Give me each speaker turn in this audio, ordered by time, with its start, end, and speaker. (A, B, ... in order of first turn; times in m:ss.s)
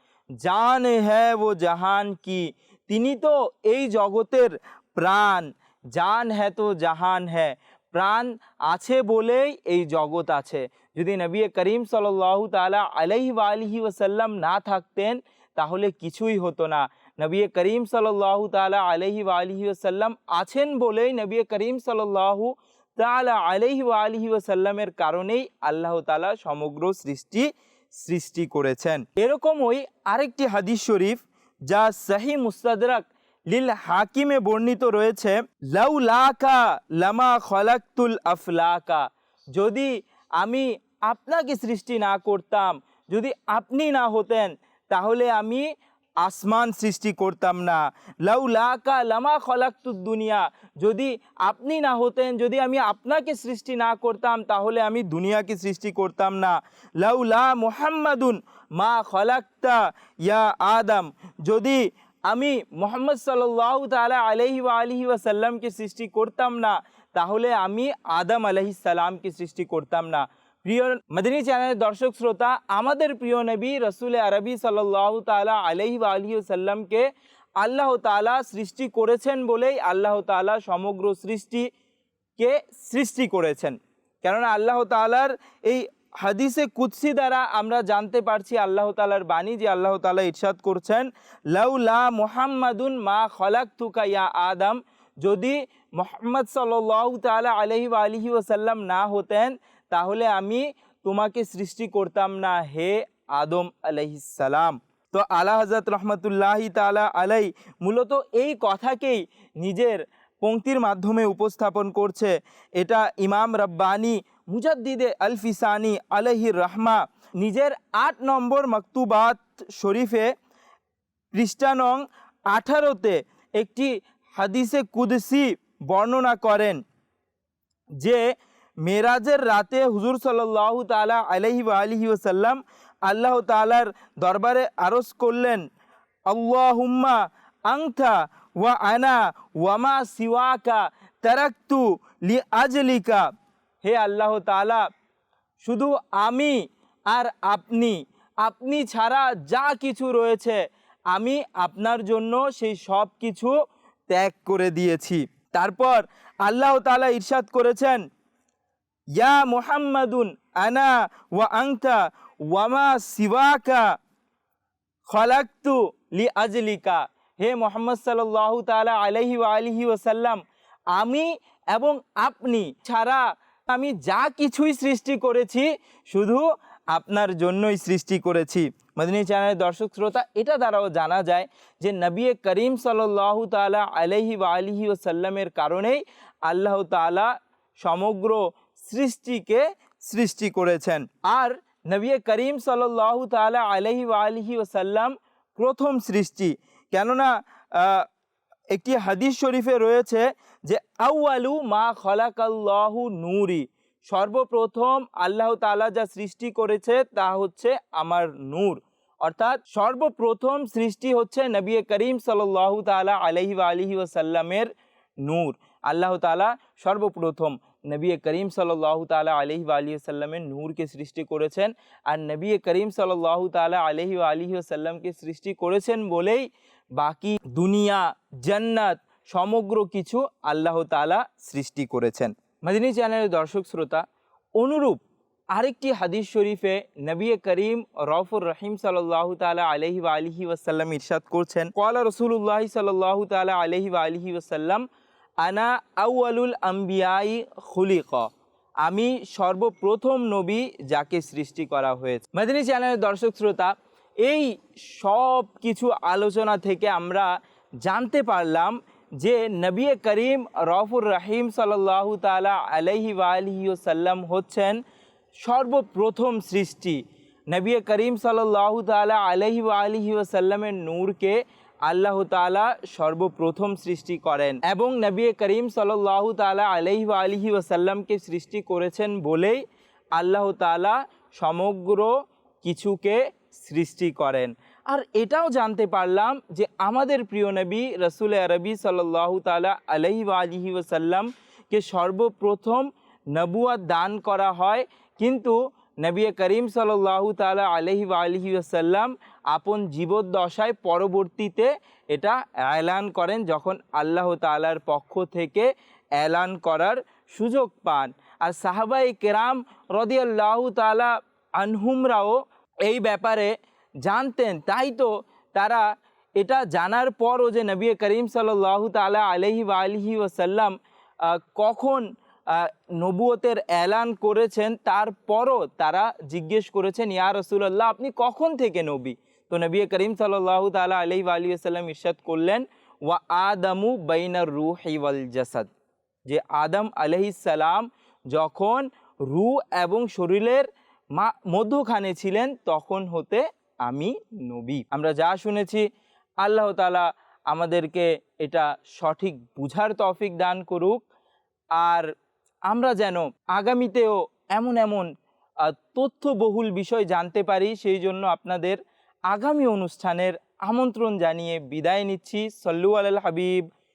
0:00.4-0:45.7 A
0:46.2-1:17.1 A
1:17.6-1:21.7 A
1:22.4-2:00.3 A
2:01.4-2:06.8 A
2:08.8-2:15.6 A
2:16.3-2:23.2 A
2:23.8-2:24.8 A
2:25.6-2:30.6 A
2:31.1-2:33.6 A
2:34.1-2:38.0 A
2:39.2-2:43.9 A
2:45.1-2:50.4 A
2:51.0-3:18.1 A
3:18.7-3:34.7 A
3:35.3-3:46.4 A
3:47.0-3:54.0 A
3:54.6-3:55.0 A
3:55.5-4:04.8 A
4:05.4-4:08.3 A
4:08.8-4:13.7 A
4:14.2-4:17.3 A
4:17.8-4:24.8 A
4:25.4-4:27.0 A
4:27.5-4:39.6 A
4:40.2-5:13.5 A
5:14.0-5:15.9 A
5:16.4-5:35.7 A
5:36.3-5:45.9 A
5:46.4-5:51.0 A
5:51.8-5:52.1 A
5:52.7-5:55.1 A
5:55.6-5:58.8 A
5:59.3-6:03.6 A